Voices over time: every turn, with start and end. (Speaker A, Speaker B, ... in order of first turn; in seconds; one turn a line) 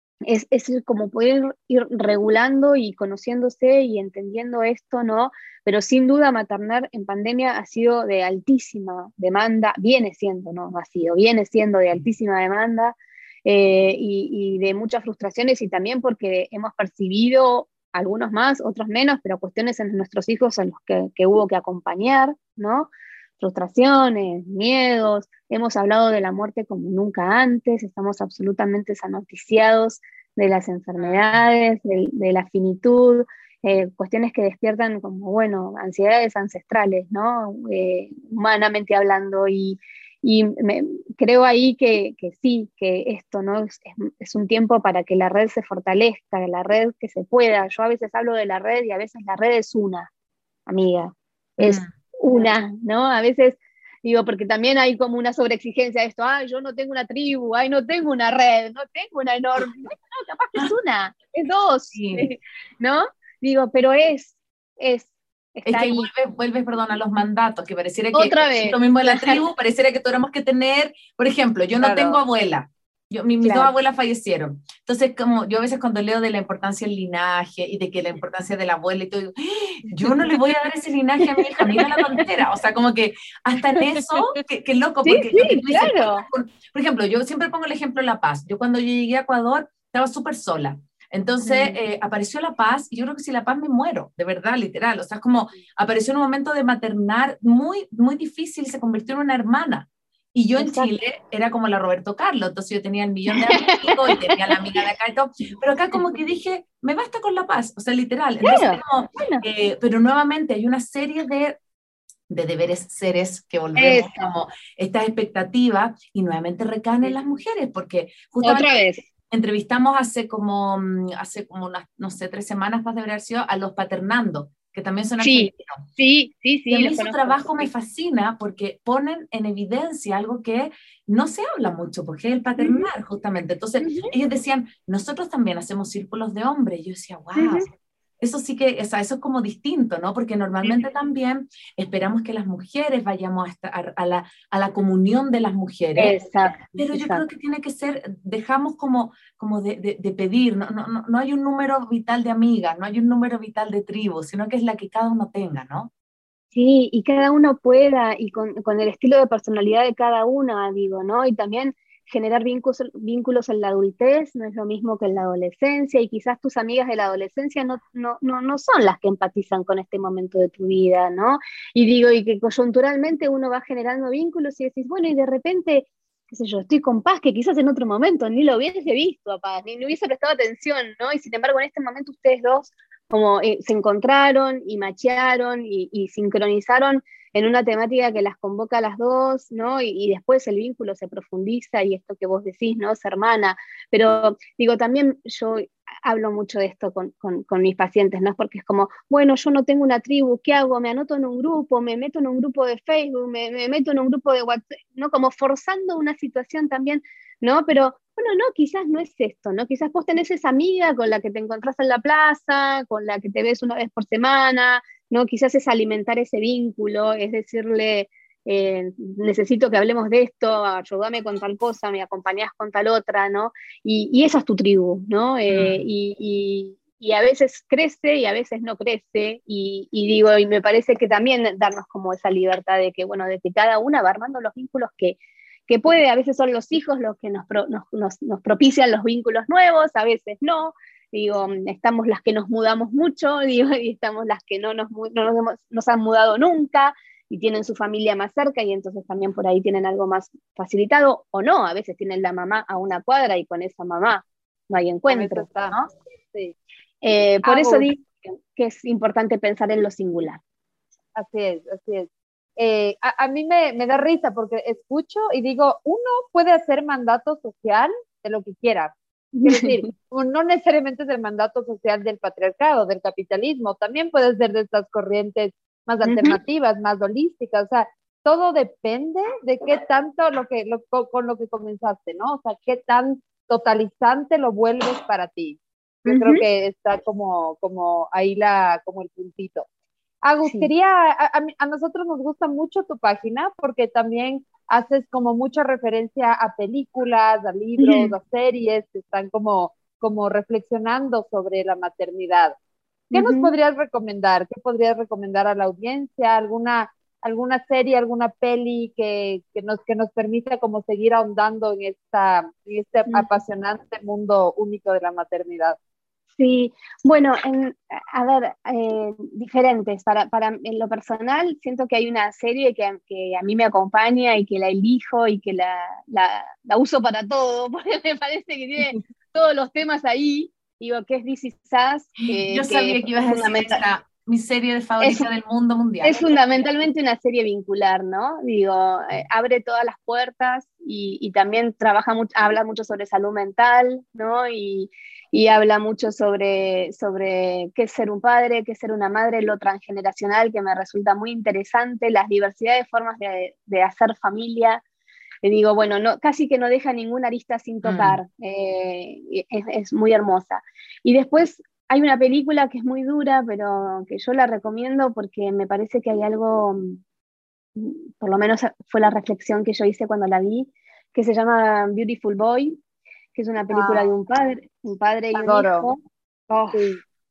Speaker A: 0.3-50.1
Speaker B: 31.0-31.4
Speaker A: 50.7-66.1
Speaker B: 51.6-51.9
Speaker B: 61.9-62.3
Speaker B: 65.7-111.6
Speaker A: 68.1-69.4
Speaker A: 71.8-72.2
Speaker A: 73.4-73.7
Speaker A: 81.4-82.2
Speaker A: 85.0-86.3
Speaker A: 91.5-91.8
Speaker A: 100.6-101.0
Speaker A: 103.3-104.6
Speaker A: 108.4-109.4
Speaker B: 112.3-125.8
Speaker A: 113.8-114.3
Speaker A: 118.4-119.0
Speaker A: 125.2-127.7
Speaker B: 126.7-137.7
Speaker A: 132.6-132.9
Speaker A: 133.8-134.1
Speaker A: 137.4-137.7
Speaker B: 138.2-146.2
Speaker A: 146.0-147.2
Speaker B: 146.7-155.9
Speaker A: 156.5-255.9
Speaker B: 225.5-225.8
Speaker C: 255.1-255.8
Speaker C: 256.3-256.6
Speaker A: 257.0-260.4
Speaker C: 257.4-257.9
Speaker C: 261.1-289.7
Speaker A: 269.4-269.9
Speaker A: 276.0-276.4
Speaker A: 286.1-286.4
Speaker C: 290.2-302.6
Speaker A: 290.4-290.7
Speaker A: 297.8-298.1
Speaker A: 303.1-303.5
Speaker C: 303.1-315.8
Speaker A: 313.1-313.4
Speaker A: 316.4-333.8
Speaker B: 332.3-336.1
Speaker A: 335.0-335.3
Speaker A: 336.0-354.8
Speaker A: 355.4-367.0
Speaker B: 357.8-358.2
Speaker A: 367.8-372.8
Speaker A: 373.4-376.9
Speaker C: 373.7-374.1
Speaker C: 375.4-375.9
Speaker C: 376.7-377.0